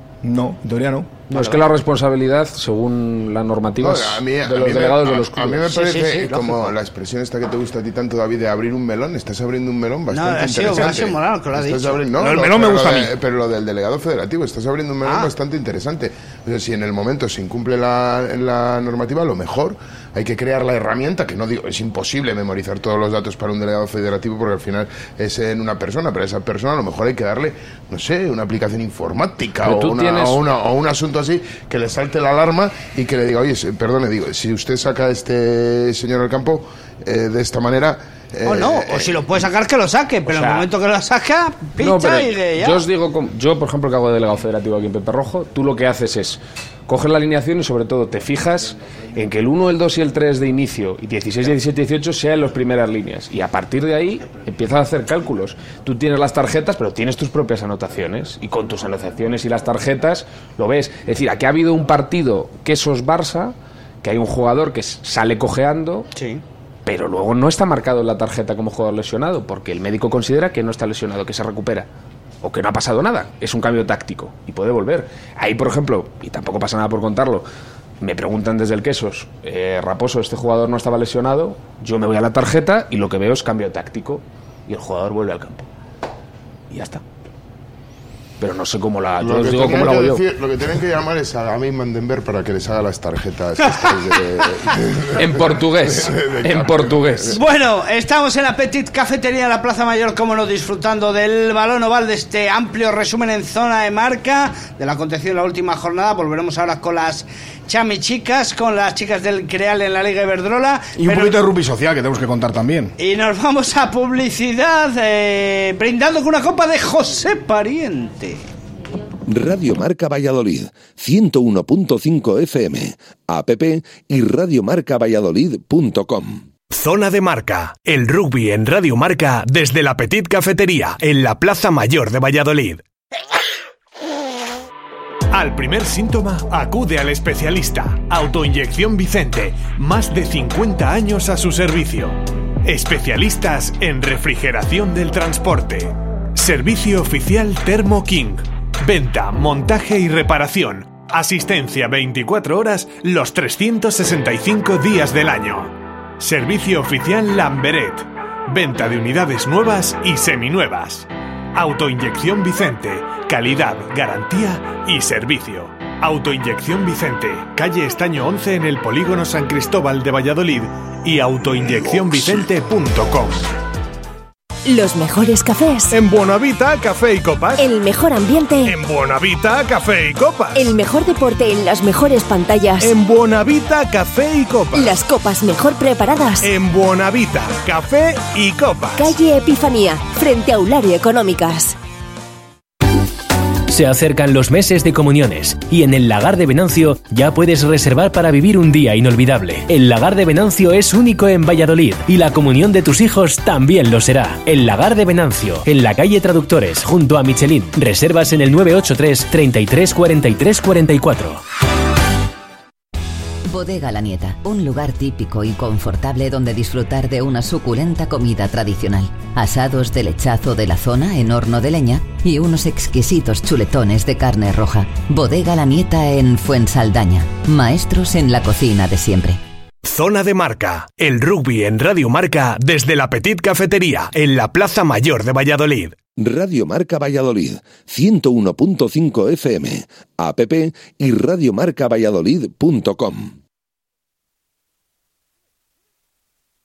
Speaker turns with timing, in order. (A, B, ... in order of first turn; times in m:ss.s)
0:00.2-0:01.2 A
0:01.3-0:01.6 B
0:01.3-0:05.7 C
0:03.8-0:39.2 D
0:05.7-0:06.7 B
0:10.1-0:12.0 B
0:12.2-0:13.1 A
0:15.0-0:15.3 B
0:29.6-0:30.4 C
0:38.4-0:42.8 B
0:40.3-0:40.7 C
0:41.8-1:06.1 C
1:06.2-1:06.4 B
1:06.9-1:11.9 C
1:12.4-1:17.5 C
1:18.0-1:25.7 C
1:26.7-1:27.0 C
1:28.4-1:30.2 C
1:29.2-1:37.4 D
1:35.1-1:37.4 C
1:37.3-1:51.4 B
1:51.0-1:52.9 A
1:53.0-1:58.4 B
1:59.3-2:06.5 E
2:06.7-2:12.8 F
2:15.3-2:53.5 F
2:54.7-2:55.9 G
2:55.9-2:57.7 F
2:57.6-2:58.8 G
2:58.6-3:00.8 F
3:00.5-3:02.9 G
3:02.8-3:05.0 F
3:04.7-3:06.5 G
3:06.4-3:09.2 F
3:09.0-3:11.8 G
3:13.7-3:31.4 H
3:33.5-3:49.4 I
3:49.8-3:56.0 F
3:56.2-4:03.4 E